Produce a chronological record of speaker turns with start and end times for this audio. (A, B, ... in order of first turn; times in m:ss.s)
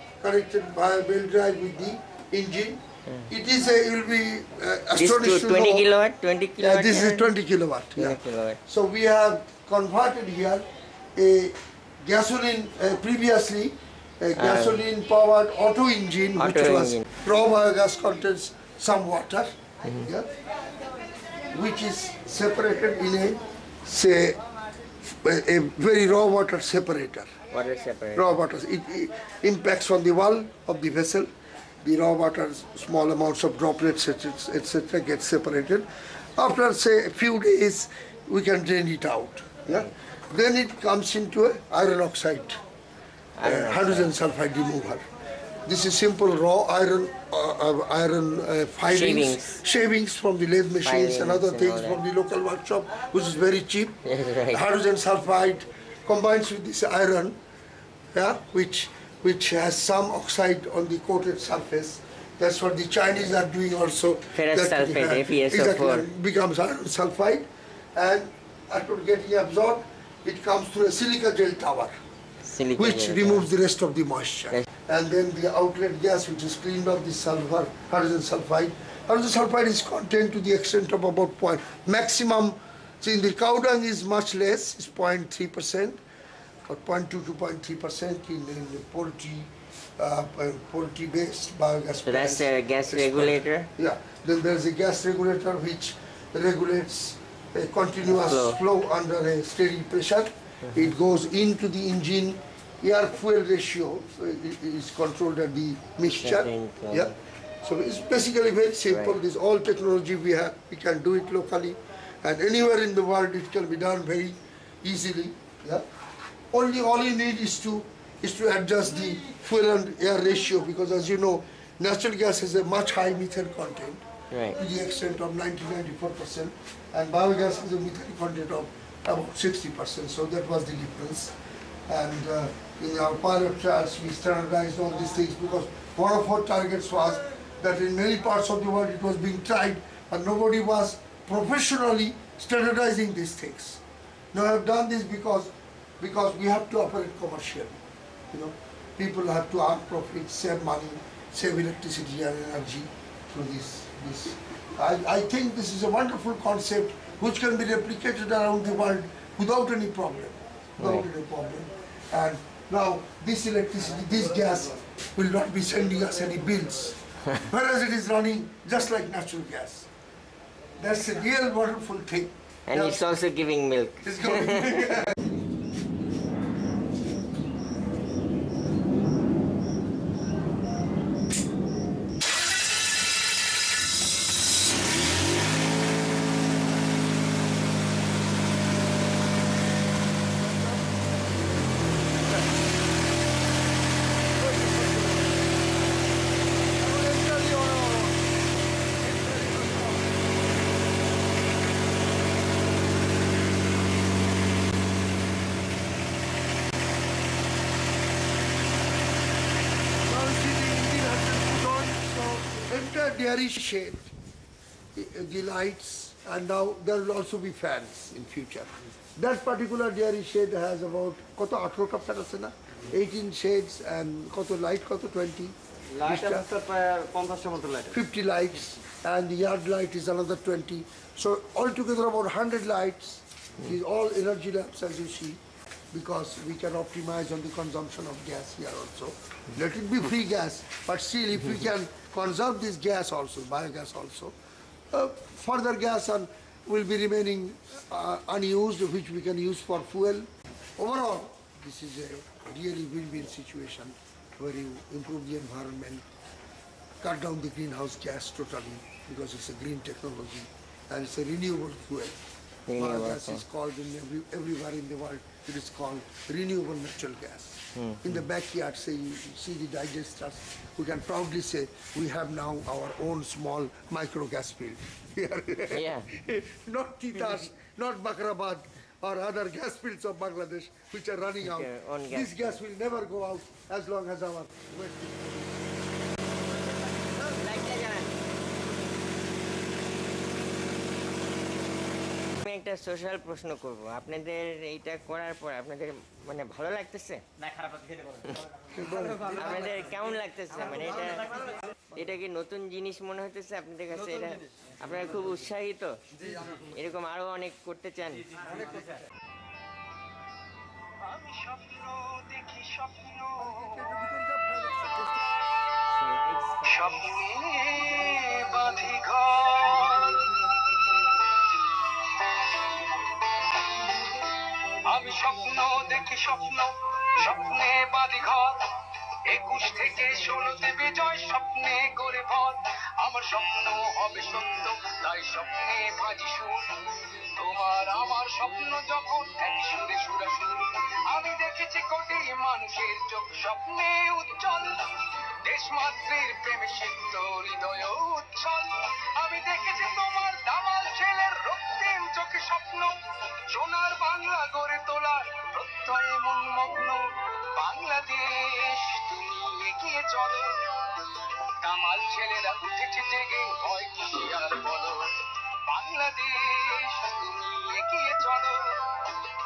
0:00.2-0:05.9 A
0:05.0-0:07.3 B
0:06.6-0:20.3 A
0:08.0-0:08.6 B
0:14.4-0:14.8 B
0:16.4-0:17.1 B
0:19.8-0:20.1 B
0:21.5-0:24.4 A
0:25.2-0:27.3 A
0:27.5-0:28.4 B
0:28.2-0:31.3 A
0:31.8-0:42.6 A
0:43.4-0:44.1 B
0:43.4-0:45.0 A
0:45.7-0:57.4 A
0:48.9-0:49.6 B
0:50.8-0:52.0 B
0:54.0-0:54.6 B
0:58.1-1:11.9 A
1:04.3-1:06.1 B
1:12.4-1:13.5 B
1:12.8-1:26.0 A
1:26.7-1:55.8 A
1:32.1-1:33.7 B
1:38.0-1:38.6 B
1:46.1-1:47.1 B
1:48.9-1:49.2 B
1:56.5-2:04.0 A
2:04.3-2:04.6 B
2:04.5-2:11.3 A
2:11.9-2:23.8 A
2:24.3-2:27.8 A
2:28.3-2:49.9 A
2:40.8-2:41.1 B
2:50.8-2:53.1 A
2:52.7-2:54.9 B
2:54.0-2:55.2 A
3:10.4-3:12.7 A
3:14.3-3:15.4 A
3:16.8-3:18.3 A
3:19.0-3:20.2 A
3:30.0-3:34.1 A
3:34.9-3:46.5 A
3:45.9-3:48.0 C
3:47.9-3:55.4 A
3:55.9-4:04.4 A
4:04.9-4:16.0 A
4:17.0-4:22.2 A
4:22.7-4:23.4 B
4:22.8-4:45.7 A
4:27.8-4:28.2 B
4:35.7-4:36.1 B
4:41.4-4:42.6 B
4:46.9-4:48.2 B
4:52.3-4:57.3 B
4:58.0-4:58.5 B
4:58.6-4:59.7 A
4:59.3-5:06.0 B
5:06.5-5:08.3 B
5:11.0-5:13.9 D
5:13.4-5:15.2 A
5:15.9-5:17.2 B
5:16.6-5:20.2 D
5:24.8-5:28.6 D
5:29.3-6:00.8 D
6:01.6-6:09.2 D